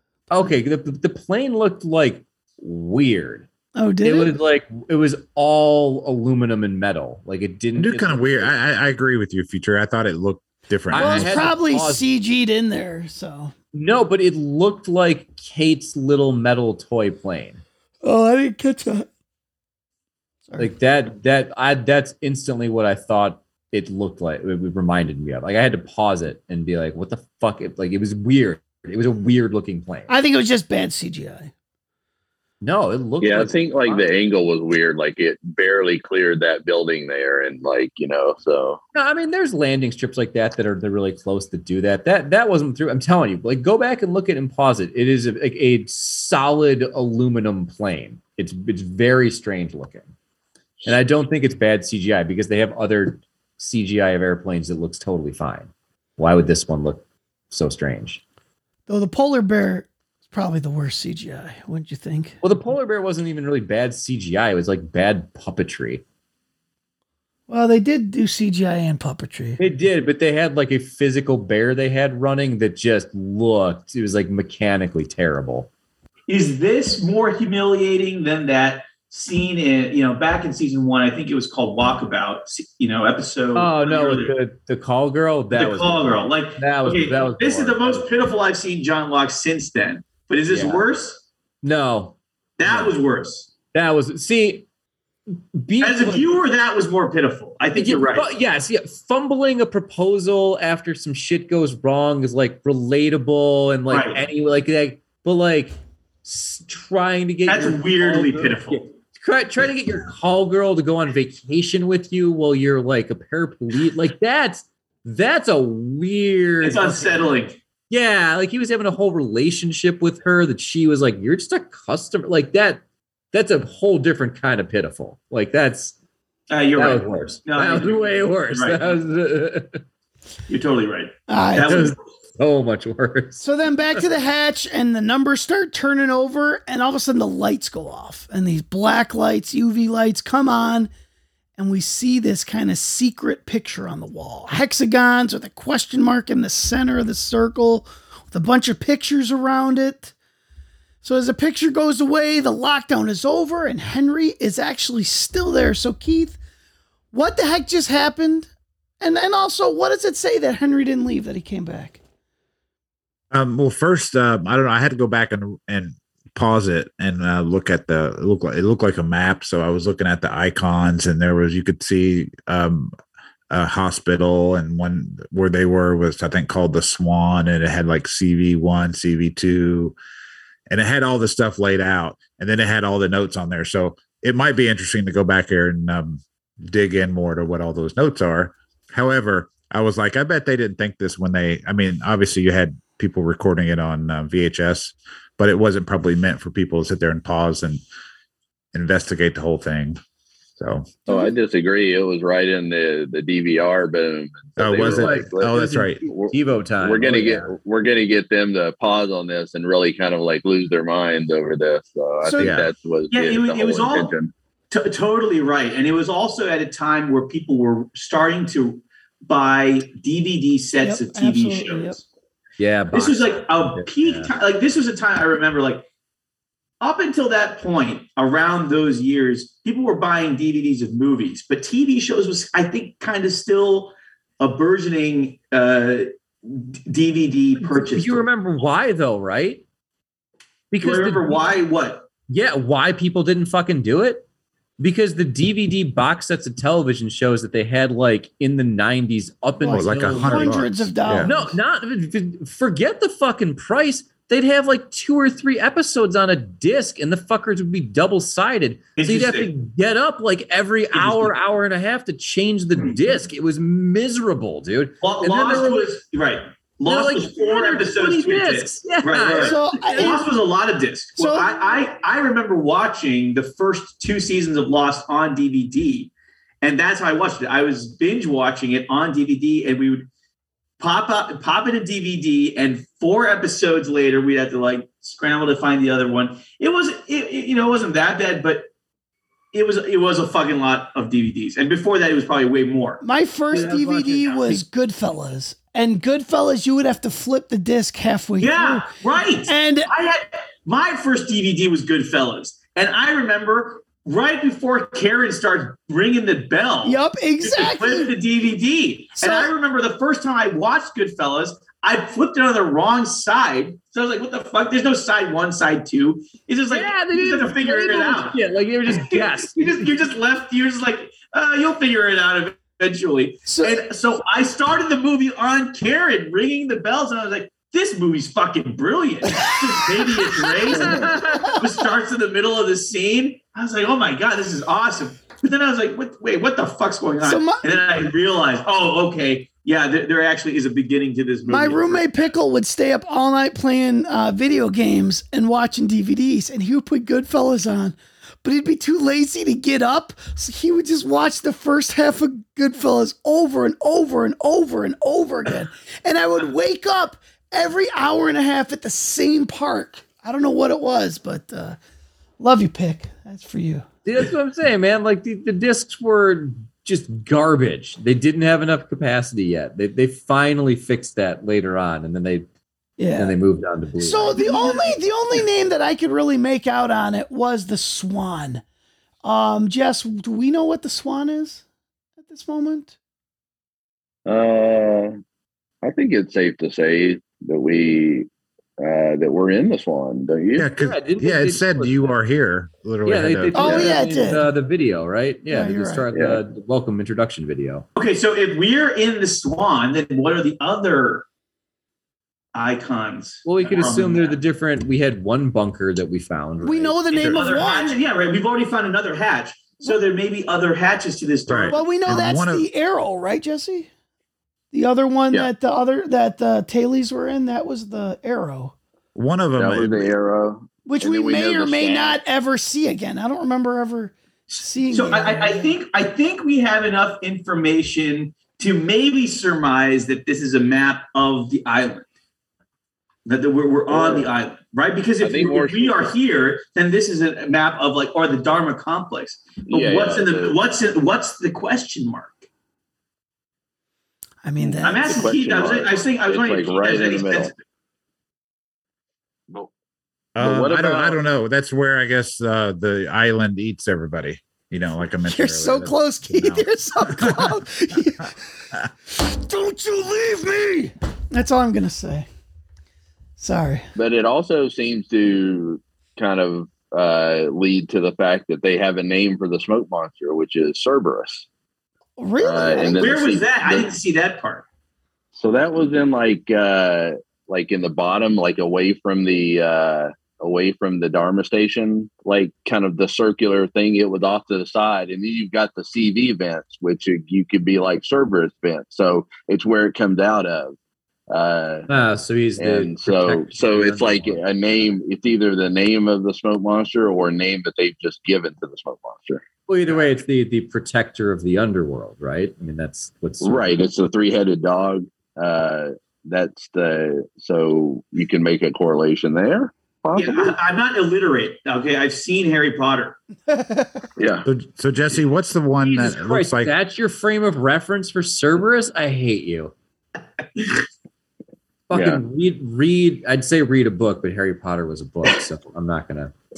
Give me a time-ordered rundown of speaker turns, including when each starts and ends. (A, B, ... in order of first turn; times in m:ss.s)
0:00.3-0:03.5 A
0:03.8-0:04.3 B
0:04.0-0:08.5 A
0:07.8-0:11.4 C
0:10.9-0:12.1 A
0:10.9-0:13.5 B
0:13.7-0:17.6 A
0:18.0-0:19.1 B
0:20.6-0:30.1 A
0:30.1-0:31.5 B
0:32.6-0:34.1 A
0:33.2-0:38.8 D
0:38.9-0:50.1 A
0:50.8-0:58.2 A
0:58.9-1:02.4 B
1:02.4-1:06.0 A
1:07.5-1:09.6 B
1:09.6-1:15.7 A
1:16.3-1:24.3 E
1:23.6-1:28.1 A
1:25.5-1:31.2 E
1:30.5-1:30.9 A
1:31.6-1:33.0 A
1:32.6-1:33.5 E
1:33.7-1:34.7 A
1:35.5-1:36.3 A
1:35.8-1:38.3 E
1:37.8-1:57.3 A
1:43.9-1:44.2 E
1:47.5-1:48.8 E
1:56.6-1:57.6 E
1:57.9-2:06.0 A
2:06.5-2:08.8 E
2:06.8-2:09.8 A
2:10.5-2:12.0 E
2:11.3-2:11.7 B
2:11.7-2:13.4 A
2:13.4-2:20.9 B
2:21.6-2:30.1 B
2:31.0-2:36.4 B
2:37.1-2:38.5 B
2:39.0-2:42.0 B
2:43.3-2:52.9 C
2:53.5-3:00.0 C
3:00.7-3:17.8 C
3:18.7-3:20.0 C
3:20.6-3:21.1 C
3:21.1-3:21.4 B
3:21.1-3:34.3 D
3:24.6-3:26.0 C
3:24.8-3:27.6 A
3:32.2-3:32.6 B
3:32.4-3:32.7 C
3:33.1-3:34.1 E
3:34.7-3:42.0 E
3:40.8-3:42.0 B
3:42.6-3:44.3 A
3:42.9-3:45.8 E
3:46.8-3:58.3 E
3:57.6-3:59.6 A
4:00.7-4:01.6 A
4:00.8-4:02.1 E
4:02.3-4:04.3 A
4:04.8-4:10.7 A
4:09.6-4:11.6 B
4:09.7-4:11.3 C
4:11.2-4:25.9 A
4:19.0-4:19.5 E
4:20.9-4:21.3 E
4:25.0-4:36.1 E
4:26.9-4:30.2 A
4:29.4-4:30.2 B
4:31.2-4:31.6 B
4:36.6-4:40.1 E
4:40.8-4:48.7 E
4:49.5-4:54.6 E
4:53.0-4:58.9 B
4:58.4-5:42.3 E
4:59.5-4:59.9 B
5:06.8-5:08.1 B
5:09.2-5:09.5 B
5:16.7-5:19.9 A
5:23.5-5:23.8 B
5:30.5-5:31.5 B
5:30.7-5:31.6 A
5:37.2-5:37.7 B
5:41.5-6:01.8 B
6:02.4-6:03.9 B
6:04.0-6:12.5 A
6:13.0-6:13.3 B
6:13.2-6:14.8 A
6:14.0-6:18.6 B
6:19.2-6:21.6 B
6:22.2-6:23.0 B
6:24.3-6:25.1 D
6:25.8-6:28.3 D
6:28.8-6:30.7 D
6:30.6-6:34.0 C
6:30.8-6:32.2 A
6:33.0-6:37.9 A
6:33.5-6:34.5 B
6:35.5-6:36.0 B
6:36.1-6:36.4 D
6:38.0-6:41.2 E
6:42.5-6:44.4 E
6:43.4-6:47.0 A
6:46.6-6:48.0 B
6:47.1-6:51.9 E
6:47.1-6:47.4 C
6:51.5-6:52.7 C
6:51.7-6:53.9 B
6:54.7-6:58.7 B
6:59.2-7:00.1 C
6:59.6-7:02.2 D
7:00.8-7:05.7 B
7:04.5-7:12.1 E
7:13.3-7:22.5 E
7:13.9-7:14.3 D
7:15.2-7:16.1 D
7:19.7-7:20.6 D
7:24.4-7:25.2 B
7:24.8-7:27.6 E
7:24.9-7:27.5 D
7:30.4-7:37.6 C
7:30.4-7:31.2 D
7:35.2-7:38.3 B
7:39.1-7:42.3 B
7:43.4-7:43.9 B
7:44.0-7:51.5 D
7:52.2-7:53.0 B
7:52.4-7:53.9 D
7:53.0-7:54.6 E
7:55.4-8:10.8 D
8:11.3-8:11.9 D
8:11.9-8:14.9 A
8:12.6-8:19.4 D
8:19.7-8:23.8 A
8:23.4-8:30.6 D
8:30.2-8:33.2 E
8:33.5-8:34.0 B
8:34.2-8:34.4 D
8:34.4-8:36.7 C
8:35.8-8:39.7 A
8:40.6-8:40.8 E
8:41.9-8:46.3 A
8:41.9-8:42.2 D